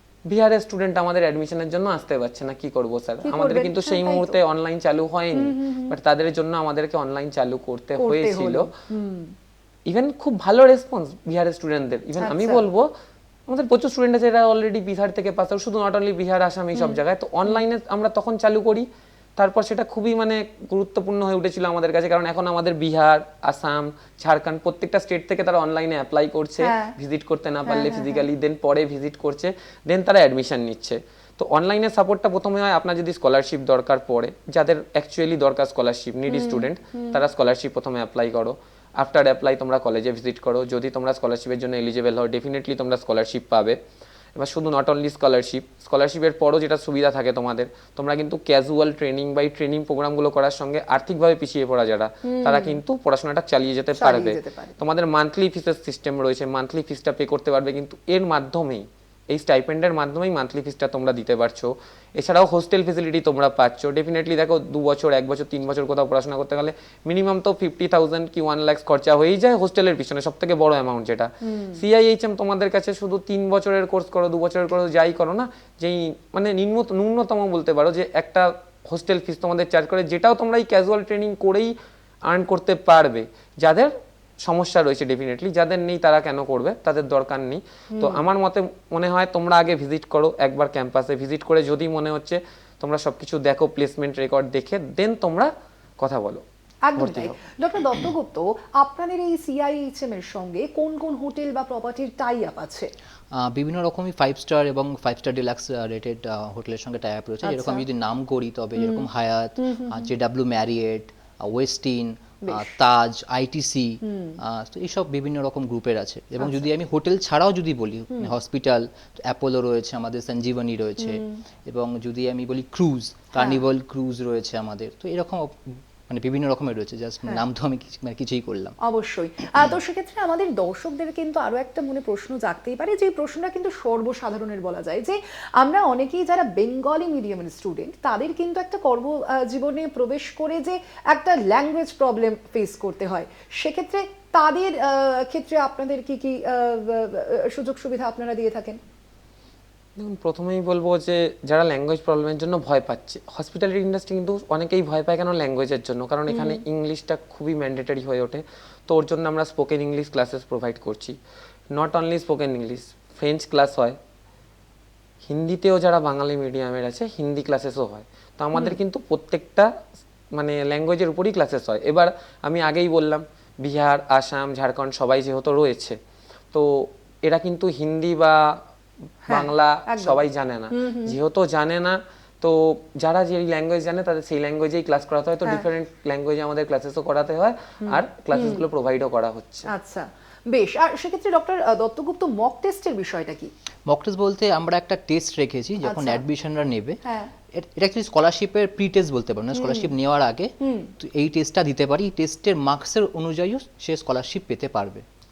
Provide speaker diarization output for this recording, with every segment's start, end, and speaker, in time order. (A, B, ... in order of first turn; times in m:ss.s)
0:00.3-0:08.7 A
0:03.2-0:04.4 B
0:05.3-0:06.0 B
0:08.0-0:09.3 B
0:09.9-0:12.9 A
0:12.2-0:12.6 B
0:13.5-0:18.8 A
0:16.8-0:17.6 B
0:19.4-0:43.8 A
0:26.6-0:26.9 B
0:27.6-0:28.2 B
0:36.3-0:37.2 B
0:44.4-1:21.7 A
0:52.2-0:52.8 B
0:53.9-0:54.8 B
1:11.4-1:11.8 B
1:22.3-1:23.9 A
1:24.4-1:36.4 A
1:27.9-1:28.2 B
1:36.8-1:42.9 B
1:37.0-1:37.4 A
1:43.4-2:08.7 C
1:47.4-1:47.8 B
1:48.8-1:50.1 B
1:52.4-1:52.7 B
1:54.0-1:54.4 B
1:56.4-1:56.7 B
2:01.0-2:01.4 B
2:03.3-2:03.6 B
2:08.8-2:28.8 B
2:30.0-2:41.2 A
2:36.3-2:36.6 B
2:41.7-2:44.0 A
2:45.2-2:49.7 A
2:50.4-2:56.0 A
2:56.5-2:58.4 A
2:59.3-3:01.2 B
2:59.3-3:09.7 A
3:07.8-3:08.6 B
3:09.7-3:13.5 B
3:13.9-3:17.0 C
3:15.8-3:16.2 B
3:17.0-3:17.3 B
3:17.6-3:25.0 C
3:19.5-3:19.9 B
3:20.6-3:20.9 B